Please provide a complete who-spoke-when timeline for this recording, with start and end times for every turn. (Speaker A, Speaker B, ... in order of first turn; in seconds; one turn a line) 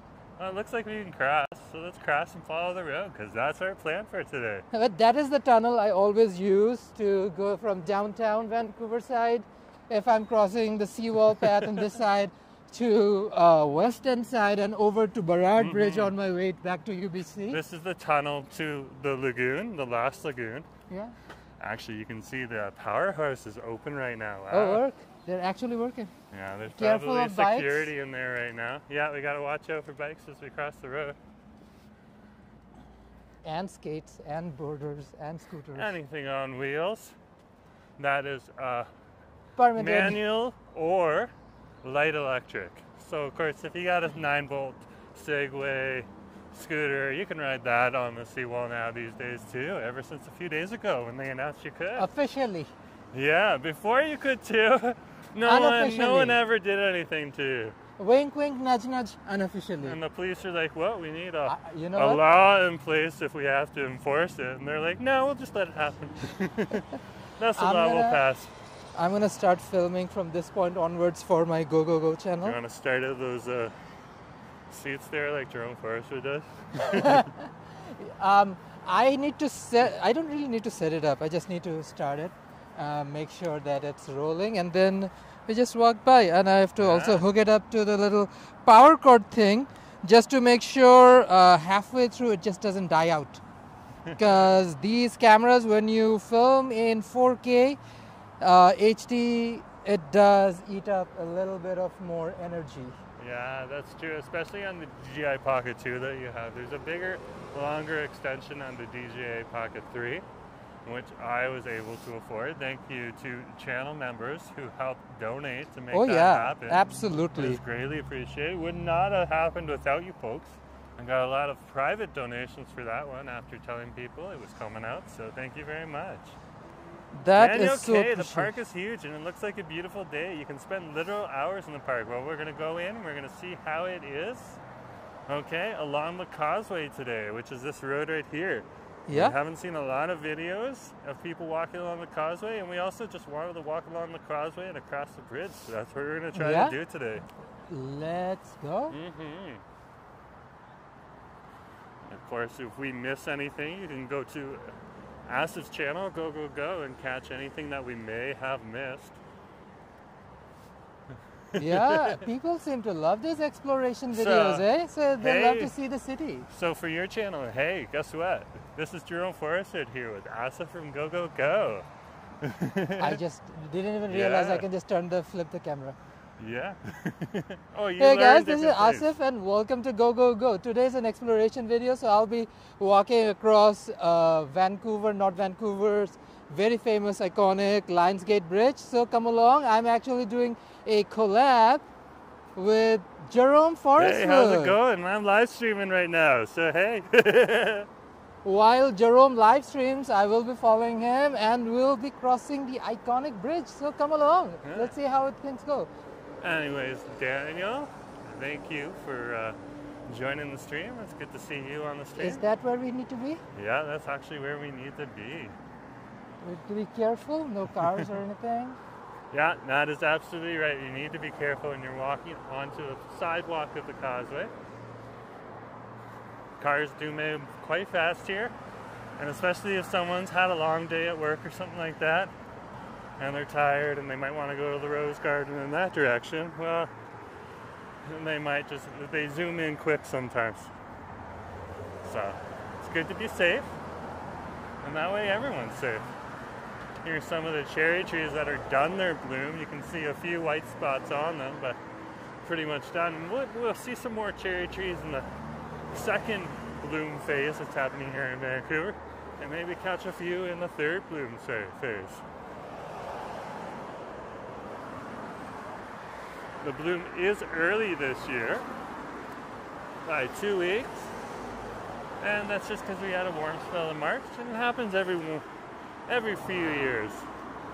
Speaker A: 0.4-4.7
Speaker B: 4.7-17.6
Speaker A: 11.4-11.8
Speaker A: 15.6-16.1
Speaker A: 17.5-20.7
Speaker A: 21.6-24.8
Speaker B: 24.5-26.1
Speaker A: 26.3-31.2
Speaker B: 26.7-27.9
Speaker B: 33.4-35.9
Speaker A: 35.7-37.2
Speaker A: 38.0-38.9
Speaker B: 39.6-40.2
Speaker A: 39.8-52.1
Speaker B: 52.0-52.7
Speaker A: 53.1-57.8
Speaker B: 55.5-56.4
Speaker B: 58.0-60.0
Speaker A: 59.8-66.9
Speaker B: 61.5-62.2
Speaker A: 67.4-68.5
Speaker B: 67.6-68.2
Speaker B: 69.0-72.6
Speaker A: 72.4-73.8
Speaker A: 74.7-77.3
Speaker B: 76.8-93.4
Speaker A: 86.8-87.2
Speaker A: 94.0-94.5
Speaker B: 94.2-97.8
Speaker B: 98.4-103.0
Speaker A: 103.2-110.2
Speaker A: 110.8-116.8
Speaker B: 115.9-117.6
Speaker A: 117.4-126.4
Speaker B: 127.1-128.5
Speaker A: 127.3-134.6
Speaker A: 135.3-147.3
Speaker B: 139.1-139.4
Speaker B: 146.3-146.8
Speaker B: 147.7-149.0
Speaker A: 148.9-149.6
Speaker A: 152.0-159.2
Speaker A: 161.5-162.2
Speaker B: 161.6-166.5
Speaker A: 164.1-165.7
Speaker A: 166.5-171.9
Speaker A: 172.4-173.2
Speaker B: 173.0-176.0
Speaker A: 174.1-174.7
Speaker A: 176.4-179.1
Speaker B: 178.0-191.8
Speaker B: 192.6-194.8
Speaker A: 194.0-197.9
Speaker B: 198.4-205.9
Speaker A: 204.6-204.9
Speaker A: 206.4-212.4
Speaker B: 212.2-213.4
Speaker A: 213.6-215.6
Speaker B: 216.4-218.8
Speaker A: 219.3-224.5
Speaker A: 226.6-228.5
Speaker A: 229.2-232.3
Speaker A: 233.2-236.9
Speaker A: 238.0-240.7
Speaker A: 242.0-243.7
Speaker A: 244.8-246.1
Speaker A: 247.0-251.8
Speaker A: 252.4-255.3
Speaker A: 255.9-262.2
Speaker A: 266.6-268.7
Speaker A: 270.1-271.1
Speaker A: 272.2-275.4
Speaker A: 276.1-277.3